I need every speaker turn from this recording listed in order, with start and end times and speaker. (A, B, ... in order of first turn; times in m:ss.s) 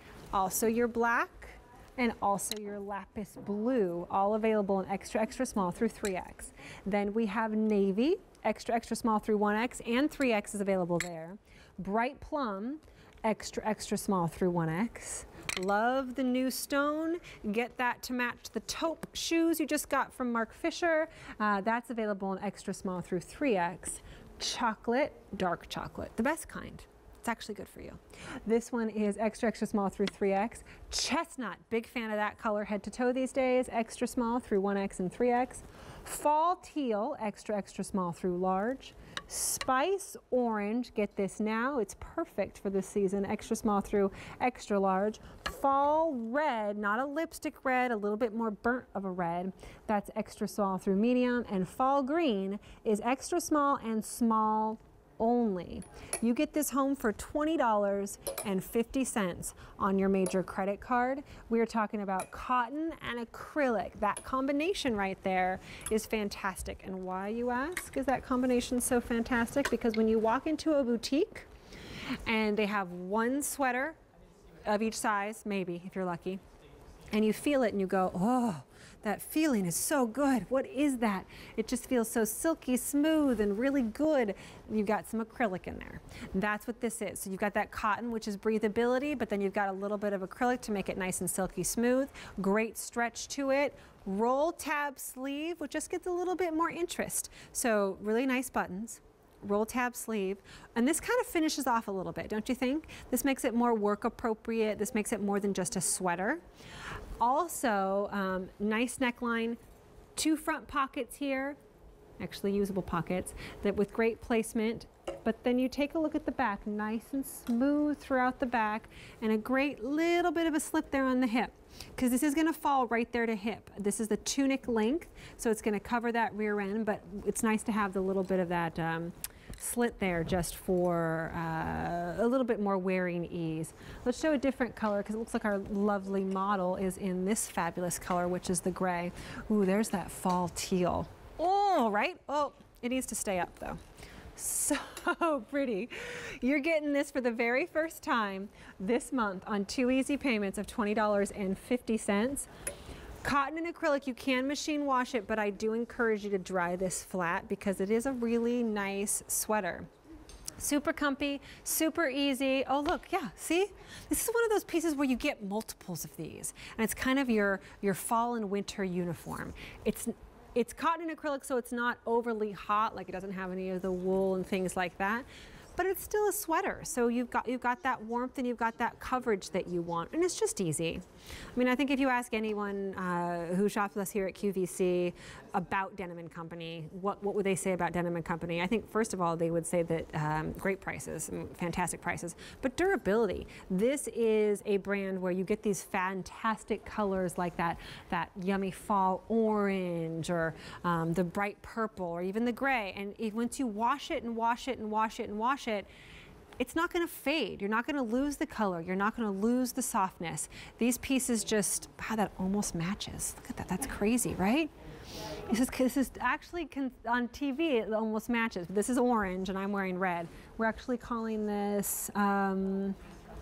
0:00.3-1:11.5 A
1:12.2-1:14.0 A
1:14.6-1:16.4 A
1:17.1-1:46.4 A
1:47.2-1:49.6 A
1:50.2-1:51.6 A
1:52.2-2:23.8 A
2:24.4-2:32.5 A
2:33.2-2:39.9 A
2:40.6-3:01.0 A
3:01.6-3:25.9 A
3:26.6-3:34.7 A
3:35.5-3:43.0 A